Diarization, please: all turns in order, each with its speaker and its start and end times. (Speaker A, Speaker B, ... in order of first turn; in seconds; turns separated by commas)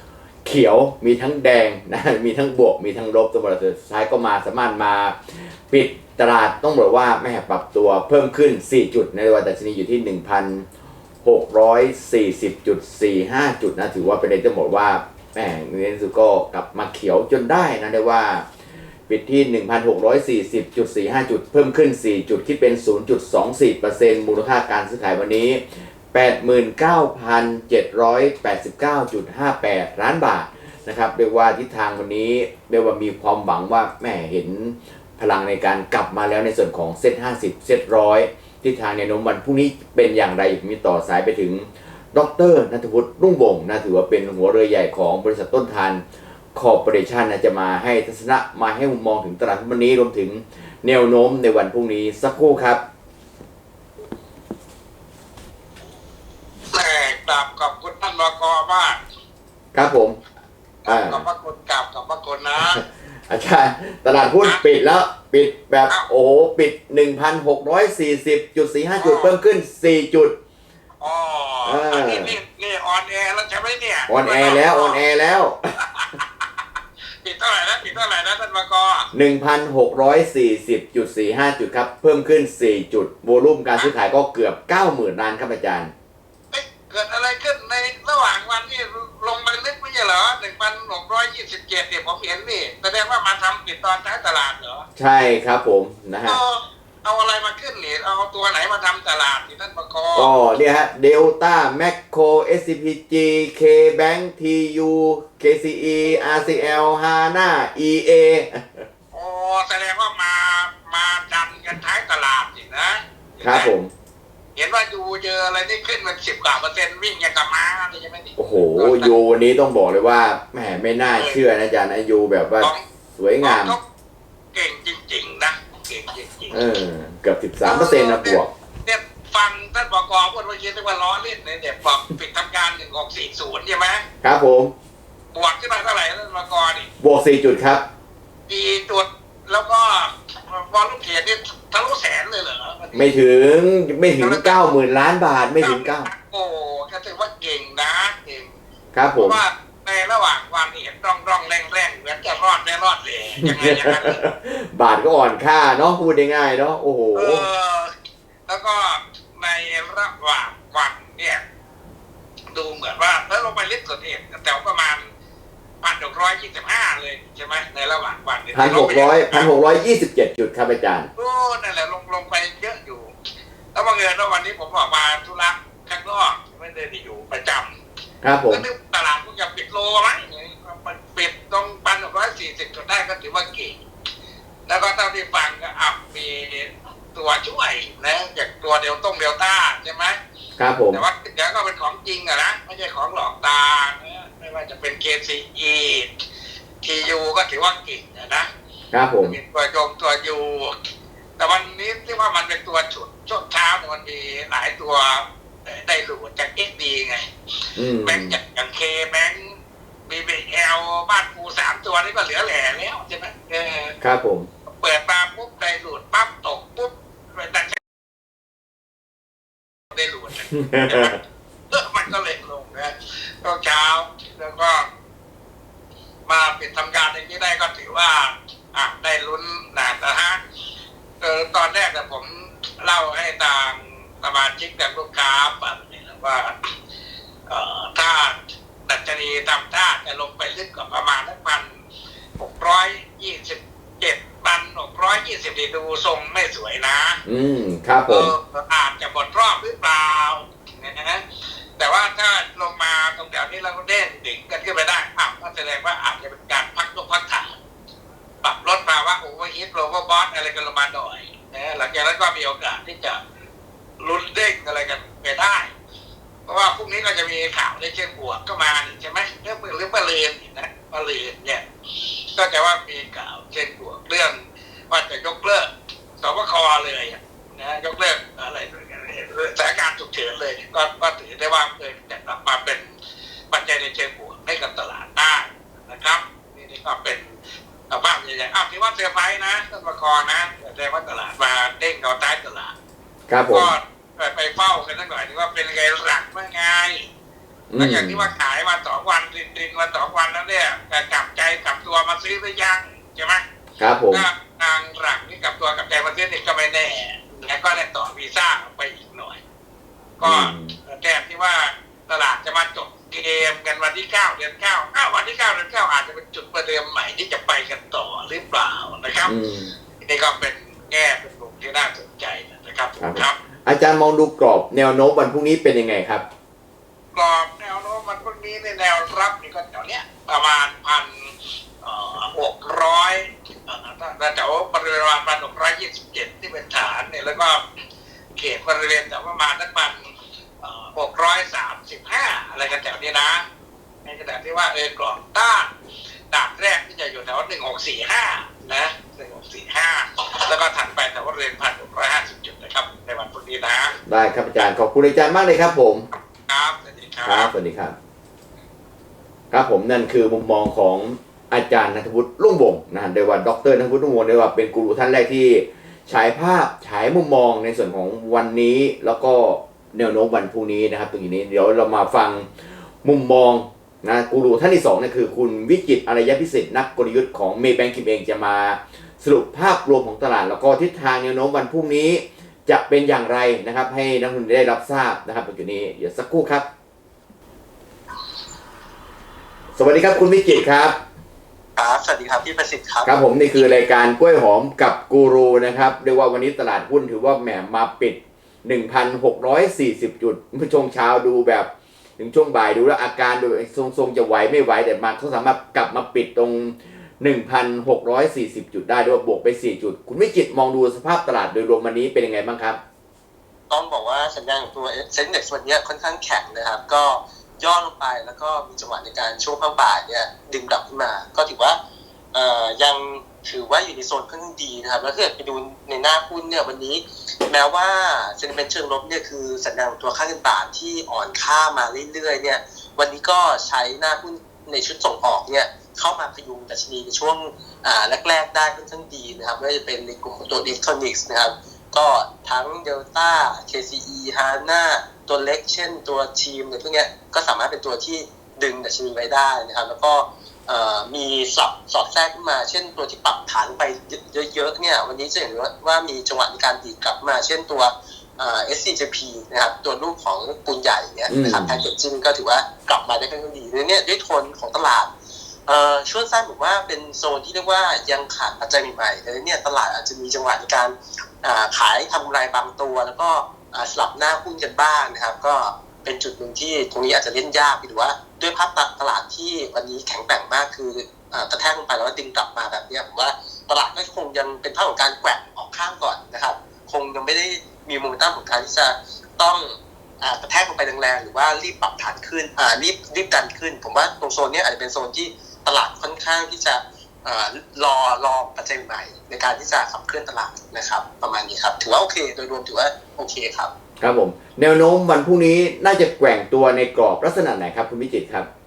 Speaker A: 0.4-10.7, Speaker A: 11.2-18.4, Speaker A: 19.1-46.0, Speaker A: 46.5-52.8, Speaker B: 56.7-59.0, Speaker A: 59.7-60.2, Speaker B: 60.9-62.8, Speaker A: 60.9-61.2, Speaker A: 62.6-70.3, Speaker B: 69.0-69.3, Speaker B: 71.0-75.0, Speaker A: 71.6-72.3, Speaker A: 74.1-75.6, Speaker B: 75.8-76.4, Speaker B: 77.2-79.1, Speaker A: 79.1-85.9, Speaker B: 86.5-94.8, Speaker A: 95.0-96.4, Speaker B: 96.2-100.3, Speaker A: 100.2-108.8, Speaker B: 106.2-106.5, Speaker B: 109.1-113.7, Speaker A: 113.4-113.9, Speaker B: 114.6-119.1, Speaker A: 118.4-123.8, Speaker B: 121.2-121.4, Speaker B: 123.4-123.8, Speaker B: 124.5-126.6, Speaker A: 126.5-128.5, Speaker B: 127.6-134.0, Speaker A: 134.2-134.7, Speaker B: 135.3-136.9, Speaker A: 137.0-137.8, Speaker B: 138.5-143.1, Speaker A: 142.9-146.1, Speaker B: 144.2-144.6, Speaker B: 145.6-148.5, Speaker A: 148.9-149.4, Speaker B: 149.2-154.2, Speaker A: 153.4-157.5, Speaker B: 157.1-157.9, Speaker B: 158.5-161.4, Speaker B: 162.5-165.0, Speaker B: 165.8-169.5, Speaker A: 168.5-171.1, Speaker B: 171.2-173.1, Speaker B: 173.8-177.7, Speaker A: 178.2-178.6, Speaker B: 178.5-183.8, Speaker B: 184.7-190.1, Speaker A: 190.6-191.0, Speaker B: 190.9-196.1, Speaker B: 196.8-198.5, Speaker A: 198.9-199.4, Speaker B: 199.2-200.8, Speaker B: 201.4-207.2, Speaker A: 207.8-208.4, Speaker B: 208.0-209.5, Speaker B: 210.1-213.9, Speaker A: 214.0-214.5, Speaker B: 214.8-217.8, Speaker B: 219.9-221.2, Speaker A: 220.5-221.1, Speaker B: 221.7-224.9, Speaker B: 226.3-230.4, Speaker B: 231.2-236.6, Speaker B: 237.5-238.3, Speaker B: 238.9-241.7, Speaker B: 242.4-247.2, Speaker A: 247.2-248.3, Speaker B: 248.1-251.2, Speaker B: 251.8-257.6, Speaker B: 258.4-263.2, Speaker B: 264.0-265.7, Speaker B: 266.5-271.6, Speaker B: 272.3-282.9, Speaker B: 283.5-287.3, Speaker B: 287.9-292.7, Speaker A: 293.3-293.7, Speaker B: 293.4-297.1, Speaker A: 297.7-298.3, Speaker B: 297.8-303.4, Speaker A: 303.8-304.2, Speaker B: 304.1-309.4, Speaker B: 310.2-319.3, Speaker A: 310.2-310.8, Speaker A: 319.2-319.7, Speaker B: 320.0-323.4, Speaker A: 323.0-326.2, Speaker B: 327.1-337.6, Speaker B: 338.4-340.0, Speaker B: 340.6-343.4, Speaker B: 344.1-345.7, Speaker B: 346.3-353.9, Speaker A: 354.1-356.1, Speaker B: 356.5-357.5, Speaker A: 357.2-357.9, Speaker A: 359.5-372.5, Speaker A: 373.0-386.6, Speaker A: 389.8-391.0, Speaker C: 391.8-393.2, Speaker A: 393.1-412.8, Speaker C: 413.7-421.8, Speaker C: 422.3-465.1, Speaker A: 461.3-461.8, Speaker C: 465.7-503.7, Speaker A: 504.0-508.5